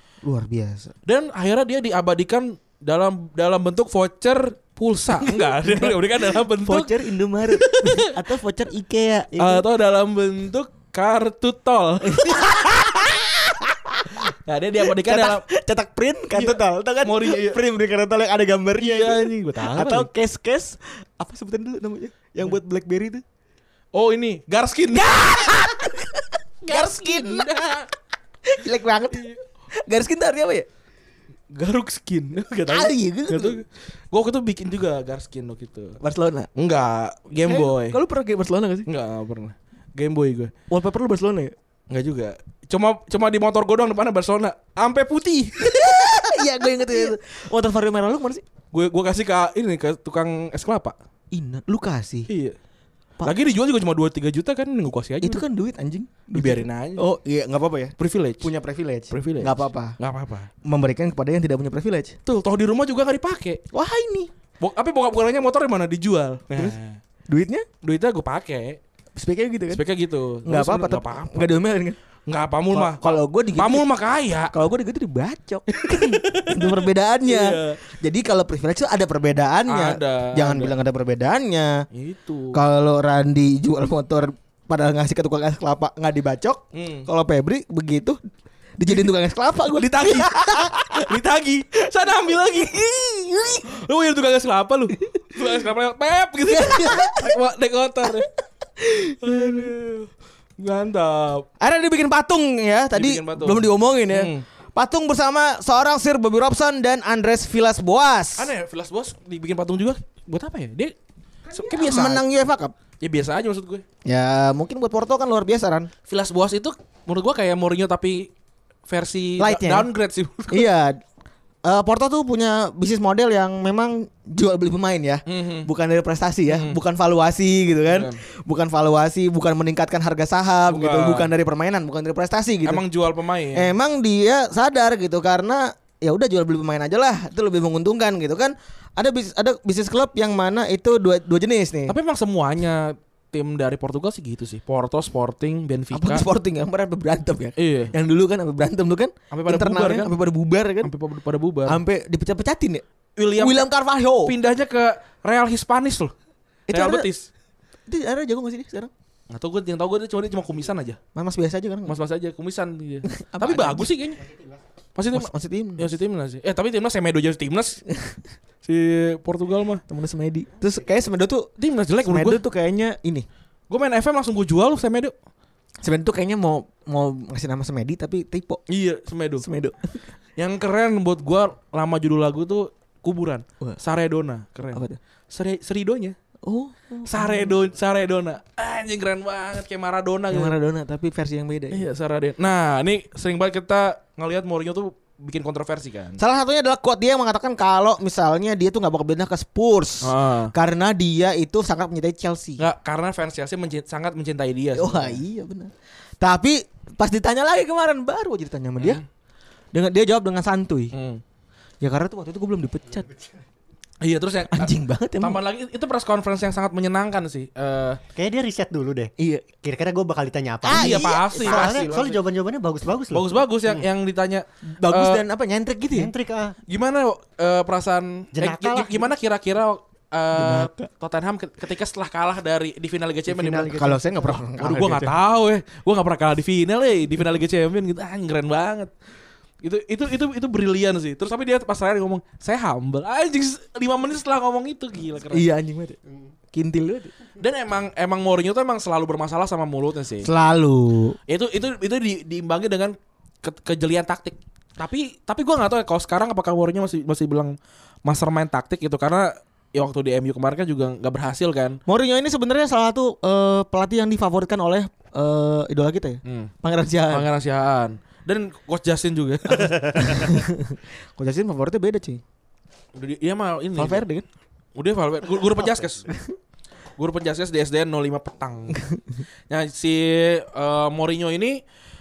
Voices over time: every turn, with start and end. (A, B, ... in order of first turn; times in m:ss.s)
0:00.2-0:00.9 A
0:01.1-0:07.0 B
0:05.1-0:09.7 A
0:07.5-0:08.2 B
0:09.4-0:12.5 B
0:12.1-0:14.2 A
0:14.4-0:15.4 B
0:14.8-0:23.2 A
0:16.3-0:17.6 B
0:18.8-0:20.1 B
0:23.9-0:25.5 B
0:24.9-0:27.5 A
0:26.6-0:27.9 B
0:28.4-0:30.7 A
0:29.1-0:29.4 B
0:31.5-0:36.0 B
0:32.7-0:33.6 A
0:36.0-0:36.5 A
0:36.6-0:38.0 B
0:37.4-0:38.9 A
0:38.9-0:40.5 B
0:40.7-0:41.5 A
0:41.9-0:47.1 B
0:45.6-0:48.4 A
0:48.7-0:51.0 B
0:51.3-0:52.3 A
0:52.3-0:52.6 B
0:53.2-0:55.4 B
0:55.2-1:00.0 A
0:56.3-0:57.0 B
0:58.0-0:58.5 B
0:59.1-1:00.5 B
1:00.6-1:02.2 A
1:02.3-1:03.6 B
1:03.7-1:04.3 A
1:04.6-1:07.0 B
1:07.3-1:07.7 A
1:07.8-1:08.8 B
1:09.2-1:09.8 A
1:09.7-1:11.7 B
1:10.4-1:12.0 A
1:12.3-1:14.5 B
1:12.7-1:13.9 A
1:14.5-1:21.9 A
1:15.7-1:17.8 B
1:19.7-1:20.7 B
1:21.9-1:22.6 B
1:22.5-1:28.2 A
1:26.7-1:27.1 B
1:28.8-1:31.0 A
1:29.7-1:38.3 B
1:33.3-1:33.6 A
1:36.5-1:37.4 A
1:38.8-1:39.7 A
1:39.2-1:41.5 B
1:41.6-1:48.5 A
1:42.9-1:44.4 B
1:48.4-1:50.9 B
1:51.5-1:52.2 B
1:51.6-1:52.7 A
1:53.0-1:53.8 B
1:54.0-1:55.9 A
1:56.1-1:58.3 B
1:58.9-2:00.7 B
1:59.4-1:59.9 A
2:00.5-2:01.0 A
2:01.6-2:12.8 A
2:05.3-2:05.7 B
2:06.5-2:06.8 B
2:07.9-2:08.2 B
2:10.7-2:11.3 B
2:12.6-2:13.7 B
2:13.5-2:22.0 A
2:21.9-2:26.3 B
2:25.9-2:30.9 A
2:27.6-2:27.9 B
2:29.3-2:30.1 B
2:30.8-2:31.8 B
2:31.7-2:32.8 A
2:33.2-2:33.7 B
2:33.4-2:34.4 A
2:34.2-2:36.1 B
2:36.7-2:37.1 A
2:36.7-2:37.3 B
2:37.9-2:38.9 A
2:39.3-2:41.0 B
2:41.2-2:42.0 A
2:41.9-2:44.2 B
2:43.1-2:43.9 A
2:44.2-2:44.6 C
2:45.0-2:47.8 B
2:45.1-2:45.9 A
2:47.9-2:48.2 A
2:48.6-2:49.8 B
2:49.9-2:51.5 A
2:50.6-2:51.0 C
2:51.6-2:52.4 B
2:52.0-2:53.3 A
2:53.7-2:55.1 B
2:55.8-2:58.6 A
2:58.7-2:59.5 B
2:59.4-3:00.0 A
3:00.4-3:06.2 B
3:04.7-3:05.0 A
3:06.4-3:07.6 A
3:07.0-3:10.6 B
3:10.3-3:11.8 A
3:11.7-3:16.2 B
3:16.2-3:22.6 A
3:20.0-3:20.5 B
3:22.6-3:25.2 B
3:24.8-3:29.0 A
3:28.8-3:29.0 B
3:29.7-3:30.9 A
3:30.9-3:31.2 B
3:31.8-3:33.1 A
3:32.9-3:33.4 C
3:34.0-3:38.0 B
3:34.5-3:35.4 A
3:38.1-3:43.9 C
3:39.2-3:39.4 A
3:40.6-3:42.1 A
3:40.7-3:42.2 B
3:43.1-3:45.2 B
3:44.7-3:46.1 A
3:45.9-3:46.6 C
3:46.7-3:58.9 B
3:48.4-3:49.1 C
3:50.3-3:50.9 A
3:53.3-3:54.5 C
3:53.7-3:55.2 A
3:59.6-4:05.5 B
4:05.3-4:06.0 A
4:06.1-4:06.3 C
4:06.5-4:07.1 A
4:07.4-4:10.3 B
4:10.2-4:11.2 A
4:11.3-4:17.5 B
4:18.0-4:21.8 B
4:21.9-4:27.3 A
4:26.3-4:26.5 B
4:27.1-4:30.3 B
4:29.5-4:32.2 A
4:33.0-4:34.0 B
4:33.8-4:34.3 A
4:34.8-4:36.1 B
4:37.0-4:38.8 B
4:38.7-4:39.0 A
4:39.5-4:41.6 B